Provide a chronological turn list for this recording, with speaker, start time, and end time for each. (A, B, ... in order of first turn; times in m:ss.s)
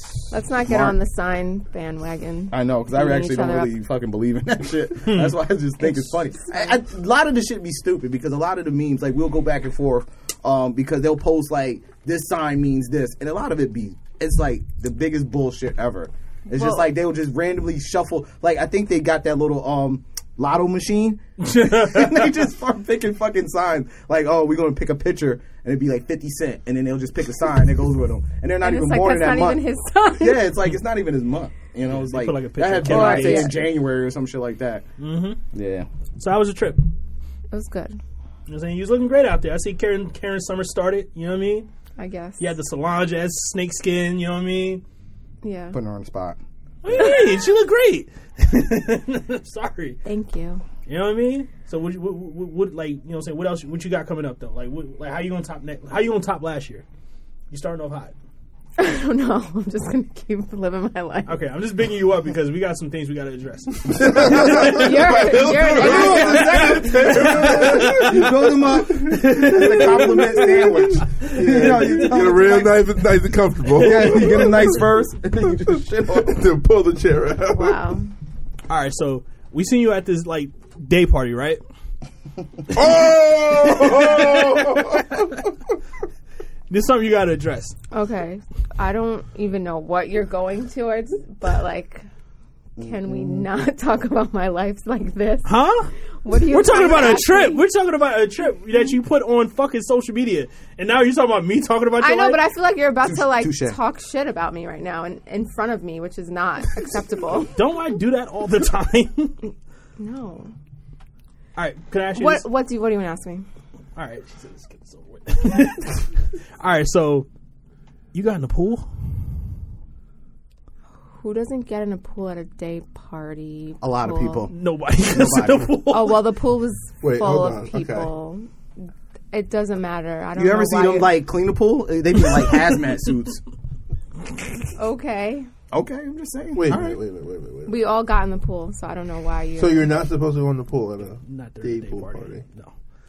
0:00.3-0:03.7 A
0:00.7-0:01.0 B
0:02.5-0:29.6 B
0:05.1-0:05.4 C
0:05.8-0:06.8 A
0:16.5-0:16.9 A
0:21.4-0:22.4 C
0:28.6-0:30.5 A
0:30.1-0:34.8 B
0:31.8-0:33.6 C
0:32.8-0:33.7 A
0:35.0-0:35.4 C
0:35.5-0:35.9 B
0:36.2-0:36.8 C
0:37.5-0:38.0 A
0:38.5-0:41.7 C
0:42.0-0:42.5 A
0:42.4-0:44.8 C
0:45.4-0:45.8 A
0:45.7-0:46.4 B
0:46.8-0:50.0 C
0:50.0-0:50.6 A
0:50.8-0:56.8 C
0:57.5-0:58.1 C
0:58.8-1:01.4 A
1:01.2-1:04.8 C
1:03.9-1:14.8 D
1:04.2-1:06.7 A
1:05.6-1:12.9 B
1:05.8-1:08.2 C
1:09.1-1:10.5 C
1:11.4-1:12.0 C
1:13.7-1:16.4 B
1:14.0-1:14.5 C
1:15.7-1:17.8 D
1:17.5-1:18.1 A
1:18.7-1:21.6 C
1:22.7-1:25.5 D
1:23.5-1:25.2 C
1:26.7-1:27.8 C
1:27.9-1:32.0 A
1:32.8-1:35.6 A
1:32.8-1:33.2 B
1:35.4-1:35.9 C
1:36.2-1:37.6 A
1:36.4-1:42.4 C
1:42.0-1:47.6 A
1:43.0-1:43.8 B
1:47.6-1:49.4 C
1:50.0-1:50.5 A
1:51.6-1:52.4 C
1:52.1-1:53.4 A
1:54.0-1:56.0 C
1:56.6-1:57.3 C
1:58.1-1:58.9 C
2:01.2-2:04.5 A
2:03.8-2:05.8 B
2:04.5-2:06.2 C
2:05.8-2:08.5 A
2:07.0-2:08.1 D
2:09.3-2:11.1 A
2:10.3-2:13.4 B
2:14.8-2:15.5 A
2:15.7-2:17.0 B
2:16.5-2:17.8 D
2:17.6-2:19.9 A
2:19.6-2:22.4 D
2:21.2-2:22.7 C